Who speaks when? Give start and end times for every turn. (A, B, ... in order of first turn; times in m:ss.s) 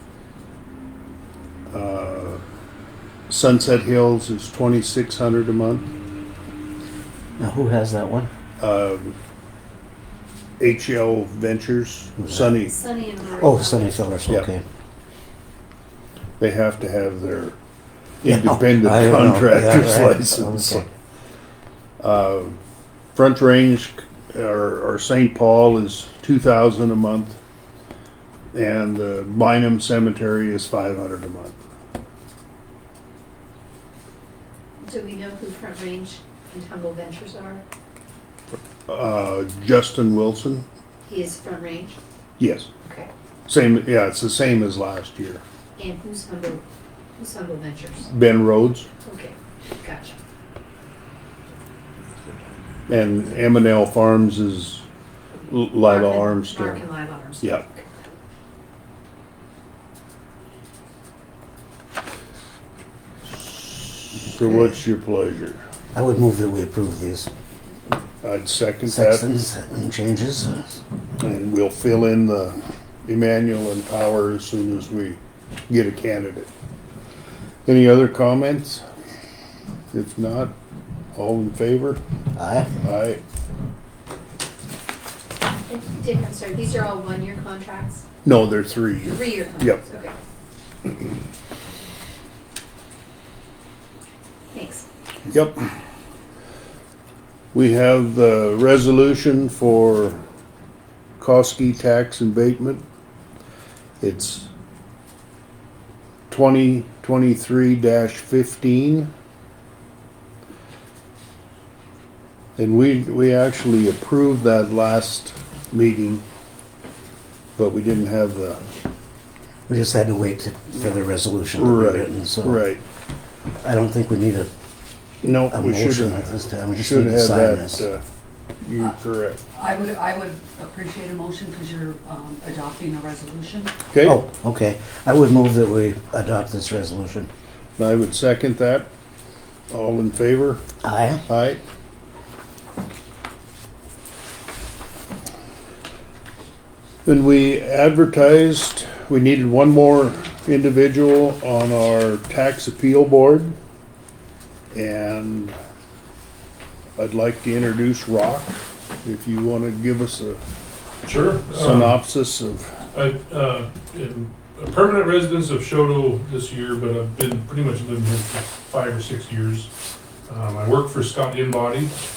0:01.7-0:02.4 A
0:03.3-0:05.9 A
0:07.4-0:08.3 B
0:08.6-0:09.2 A
0:10.6-0:12.8 A
0:12.2-0:12.5 B
0:12.7-0:14.0 C
0:13.4-0:14.6 B
0:16.4-0:17.6 A
0:18.2-0:20.9 A
0:18.2-0:20.9 B
0:22.0-0:22.6 A
0:23.2-0:27.4 A
0:28.5-0:31.6 A
0:34.8-0:37.6 C
0:38.9-0:40.6 A
0:41.0-0:42.0 C
0:42.4-0:42.7 A
0:42.8-0:43.1 C
0:43.5-0:45.4 A
0:45.8-0:46.6 C
0:47.2-0:48.1 C
0:48.1-0:48.9 A
0:49.0-0:50.2 C
0:52.9-0:54.8 A
0:55.5-0:56.8 A
0:55.7-0:57.9 C
1:03.3-1:05.6 A
1:05.9-1:07.3 B
1:08.2-1:09.3 A
1:08.9-1:10.8 B
1:11.2-1:16.5 A
1:17.7-1:18.8 A
1:19.9-1:20.5 A
1:21.1-1:22.0 A
1:22.4-1:22.7 B
1:22.8-1:23.2 A
1:25.7-1:28.0 C
1:28.2-1:29.8 A
1:29.0-1:30.2 C
1:34.5-1:34.9 C
1:35.3-1:35.7 A
1:37.5-1:40.2 A
1:41.2-1:42.8 A
1:44.0-1:44.5 A
1:46.3-1:49.1 A
1:52.6-1:56.2 A
1:57.6-1:58.6 A
1:59.7-2:02.6 B
2:01.6-2:02.8 A
2:03.6-2:04.5 B
2:05.2-2:08.0 A
2:05.5-2:07.9 B
2:08.6-2:09.4 A
2:09.5-2:13.8 D
2:13.9-2:14.2 A
2:14.0-2:17.3 B
2:17.8-2:18.9 A
2:19.7-2:20.6 A
2:20.8-2:21.2 B
2:21.3-2:21.6 A
2:27.1-2:33.6 A
2:34.7-2:35.5 A
2:37.0-2:40.4 A
2:41.0-2:42.0 E
2:41.5-2:42.8 A
2:42.9-2:49.7 E
2:50.3-2:52.0 E